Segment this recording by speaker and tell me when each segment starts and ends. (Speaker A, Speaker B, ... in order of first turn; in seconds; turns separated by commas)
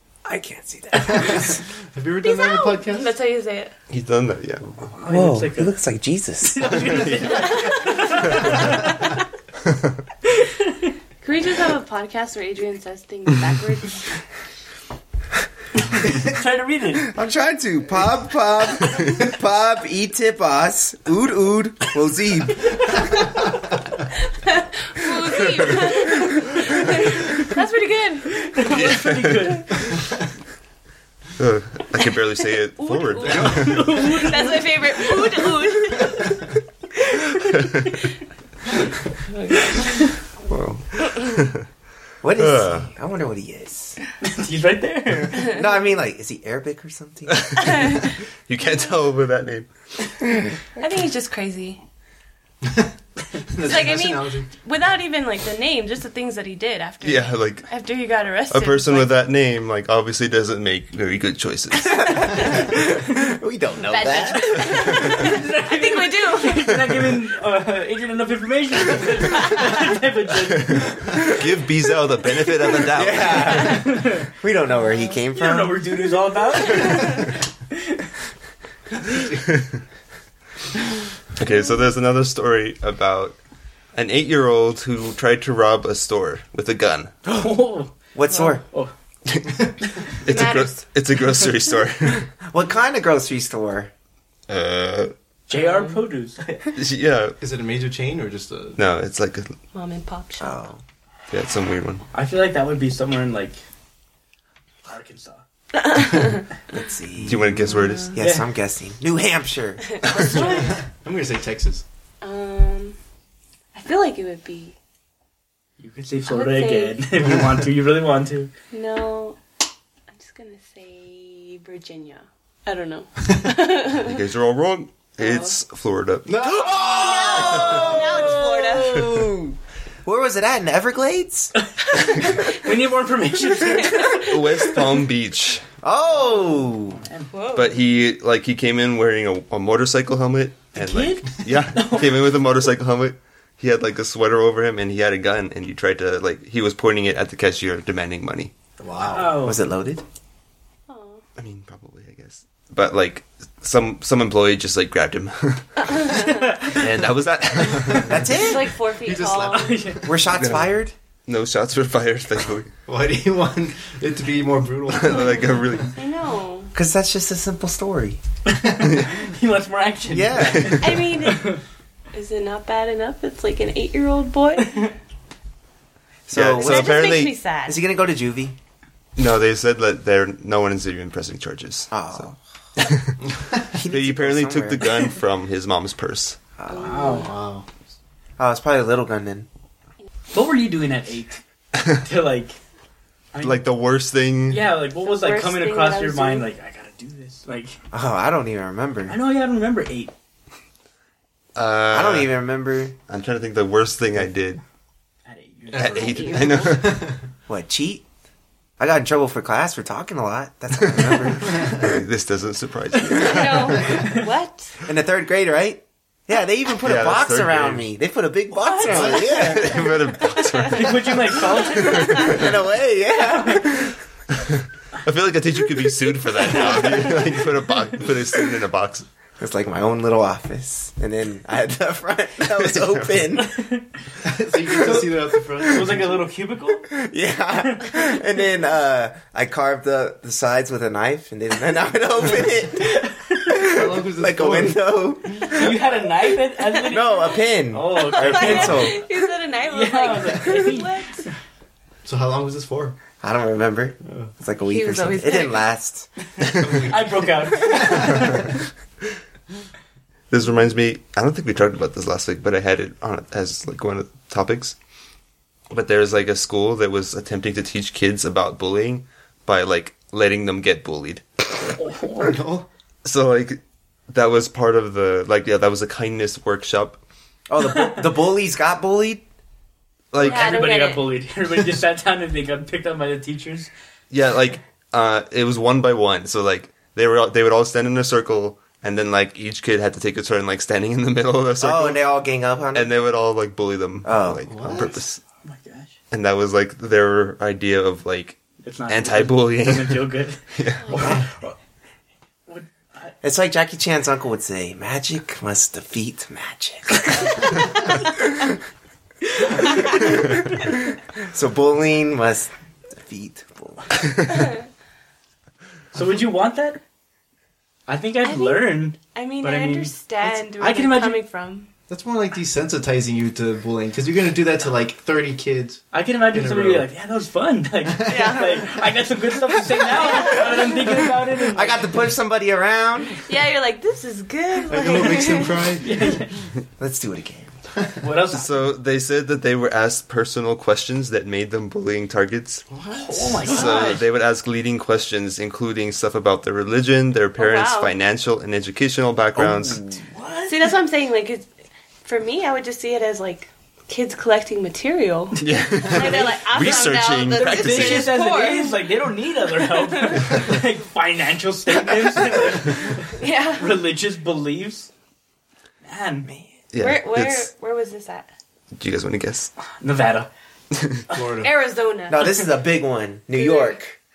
Speaker A: 0.2-1.6, Speaker B: 1.1-3.1, Speaker C: 2.2-3.7, Speaker D: 3.9-4.9, Speaker E: 4.9-5.8, Speaker A: 5.0-7.1, Speaker E: 6.4-8.9, Speaker C: 7.3-8.4, Speaker E: 10.3-10.9, Speaker C: 11.2-14.1, Speaker E: 15.9-17.1, Speaker A: 17.0-23.0, Speaker C: 24.4-28.7, Speaker E: 28.3-30.0, Speaker D: 28.7-29.5, Speaker D: 31.4-33.9, Speaker C: 32.8-38.1, Speaker E: 33.2-35.0, Speaker C: 39.3-39.9, Speaker E: 39.7-40.1, Speaker D: 40.5-41.6, Speaker A: 42.2-44.0, Speaker D: 42.4-42.9, Speaker E: 44.2-45.5, Speaker A: 45.4-47.8, Speaker D: 47.3-49.7, Speaker C: 47.6-48.1, Speaker C: 50.8-51.8, Speaker B: 52.6-52.9, Speaker B: 53.4-54.5, Speaker C: 53.6-59.2, Speaker D: 57.0-57.7, Speaker D: 58.5-62.1, Speaker A: 61.9-65.3, Speaker C: 62.4-62.7, Speaker C: 63.9-66.8, Speaker E: 64.7-71.2, Speaker D: 71.1-73.8, Speaker A: 72.8-75.8, Speaker E: 73.2-74.3, Speaker E: 75.3-78.1, Speaker C: 76.8-77.2, Speaker D: 79.4-79.8, Speaker D: 81.3-83.3, Speaker D: 83.9-87.2, Speaker A: 87.2-87.5, Speaker E: 87.3-88.9, Speaker A: 88.1-88.6, Speaker D: 89.3-89.7, Speaker D: 90.2-92.3, Speaker C: 90.2-90.8, Speaker A: 92.5-93.9, Speaker D: 94.5-95.1, Speaker E: 95.5-96.7, Speaker C: 95.5-95.9, Speaker D: 96.7-97.4, Speaker B: 97.4-98.8, Speaker D: 98.8-99.5, Speaker C: 99.7-100.6, Speaker A: 100.4-100.8, Speaker D: 101.3-102.0, Speaker E: 102.1-103.6, Speaker E: 104.8-105.4, Speaker C: 105.7-106.5, Speaker B: 106.0-106.3, Speaker A: 106.7-107.5, Speaker D: 107.2-108.2, Speaker C: 107.7-108.2, Speaker A: 108.1-110.2, Speaker E: 108.2-108.5, Speaker C: 110.0-110.7, Speaker B: 110.4-111.8, Speaker C: 112.2-113.0, Speaker C: 113.7-114.8, Speaker E: 115.8-118.5, Speaker C: 116.3-117.0, Speaker C: 118.7-119.4, Speaker C: 120.1-124.2, Speaker D: 123.9-126.3, Speaker C: 125.2-125.5, Speaker B: 126.3-126.9, Speaker A: 126.4-131.5, Speaker C: 126.8-129.1, Speaker D: 127.4-127.9, Speaker E: 131.8-134.3, Speaker C: 132.2-132.6, Speaker C: 133.4-134.8, Speaker D: 134.1-135.6, Speaker A: 135.8-137.0, Speaker E: 136.2-137.3, Speaker C: 137.3-137.8, Speaker D: 137.5-148.5, Speaker E: 140.7-142.2, Speaker B: 148.8-149.4, Speaker E: 149.0-149.7, Speaker A: 149.4-150.0, Speaker C: 150.9-151.2, Speaker D: 151.4-156.1, Speaker C: 155.9-156.7, Speaker E: 156.2-156.8, Speaker D: 156.7-158.3, Speaker A: 158.1-158.7, Speaker C: 158.3-159.9, Speaker B: 159.0-160.0, Speaker E: 159.4-160.3, Speaker A: 160.0-160.9, Speaker D: 160.3-160.7, Speaker D: 161.3-162.7, Speaker B: 162.8-165.6, Speaker D: 164.9-165.9, Speaker C: 165.1-166.7, Speaker A: 166.7-168.2, Speaker E: 168.5-171.6, Speaker A: 170.1-170.8, Speaker D: 170.4-170.8, Speaker C: 170.8-171.6, Speaker C: 172.1-174.8, Speaker E: 174.6-174.9, Speaker A: 176.3-178.6, Speaker D: 176.3-177.3, Speaker C: 176.6-177.8, Speaker D: 179.2-183.2, Speaker A: 181.9-182.4, Speaker A: 183.7-184.9, Speaker D: 183.8-186.4, Speaker A: 186.6-187.1, Speaker C: 186.7-187.3, Speaker E: 186.7-187.3, Speaker B: 187.2-187.6, Speaker A: 188.4-189.5, Speaker E: 190.3-191.4, Speaker D: 191.8-192.0, Speaker E: 192.0-192.6, Speaker E: 193.3-193.6, Speaker D: 193.4-194.7, Speaker E: 194.5-197.8, Speaker C: 195.0-196.5, Speaker A: 197.9-199.2, Speaker E: 199.1-200.1, Speaker D: 201.5-202.4, Speaker A: 201.9-202.9, Speaker D: 203.1-204.6, Speaker E: 205.2-206.5, Speaker D: 205.7-207.0, Speaker C: 205.8-206.8, Speaker B: 206.6-207.2, Speaker A: 207.5-208.0, Speaker A: 208.8-212.0, Speaker D: 211.0-214.0, Speaker B: 211.5-211.7, Speaker E: 213.1-214.2, Speaker C: 213.1-214.7, Speaker A: 214.8-219.8, Speaker D: 216.8-217.9, Speaker C: 218.6-220.7, Speaker D: 218.8-222.3, Speaker E: 220.7-222.5, Speaker C: 221.9-222.3, Speaker A: 222.1-223.9, Speaker E: 223.1-223.8, Speaker D: 224.3-229.1, Speaker A: 229.4-233.5, Speaker D: 232.4-233.3, Speaker E: 233.4-233.9, Speaker B: 234.2-236.2, Speaker A: 234.6-235.1, Speaker E: 235.7-236.9, Speaker A: 236.9-245.7, Speaker E: 237.5-238.1, Speaker E: 242.8-243.6, Speaker B: 243.6-244.8, Speaker E: 245.4-249.1, Speaker A: 246.9-249.0, Speaker C: 247.9-251.2, Speaker E: 249.6-251.3, Speaker B: 252.0-253.0, Speaker A: 253.2-256.1, Speaker B: 254.1-254.3, Speaker C: 254.6-255.7, Speaker E: 256.4-258.6, Speaker B: 256.4-258.4, Speaker D: 260.3-264.8, Speaker D: 265.7-271.2, Speaker E: 271.6-272.4, Speaker B: 272.2-272.7, Speaker D: 273.0-277.0, Speaker A: 277.5-279.2, Speaker E: 277.6-278.1, Speaker D: 280.1-280.7, Speaker E: 280.2-283.7, Speaker C: 280.2-281.0, Speaker D: 284.1-292.0, Speaker A: 291.6-292.9, Speaker D: 292.7-295.2, Speaker A: 294.0-294.4, Speaker B: 294.4-295.0, Speaker E: 295.4-295.9, Speaker D: 296.1-301.2, Speaker E: 298.6-301.3, Speaker C: 300.9-301.1, Speaker E: 302.5-303.1, Speaker A: 303.2-307.7, Speaker A: 311.1-314.1, Speaker E: 315.9-316.8, Speaker E: 317.9-321.2, Speaker C: 318.2-321.7, Speaker B: 321.9-326.9, Speaker E: 325.9-331.9, Speaker B: 327.9-328.4, Speaker C: 328.0-328.8, Speaker C: 329.9-330.8, Speaker A: 331.5-333.1, Speaker C: 333.2-335.7, Speaker B: 334.7-336.0, Speaker E: 334.9-336.4, Speaker A: 336.8-337.5, Speaker E: 338.0-338.5, Speaker D: 338.3-342.6, Speaker B: 342.7-343.6, Speaker E: 342.9-344.0, Speaker D: 343.4-349.8, Speaker C: 347.4-347.9, Speaker A: 349.7-350.6, Speaker C: 350.5-351.5, Speaker C: 352.0-358.9, Speaker D: 355.4-358.2, Speaker E: 357.3-364.9, Speaker C: 359.6-360.4, Speaker C: 363.1-363.7, Speaker E: 365.8-366.3, Speaker A: 366.2-366.5, Speaker D: 366.7-367.5, Speaker C: 366.8-368.3, Speaker D: 368.8-369.5, Speaker E: 369.6-370.3, Speaker D: 370.7-371.0, Speaker B: 371.1-371.5, Speaker C: 371.4-372.5, Speaker A: 372.1-374.0, Speaker C: 373.3-373.8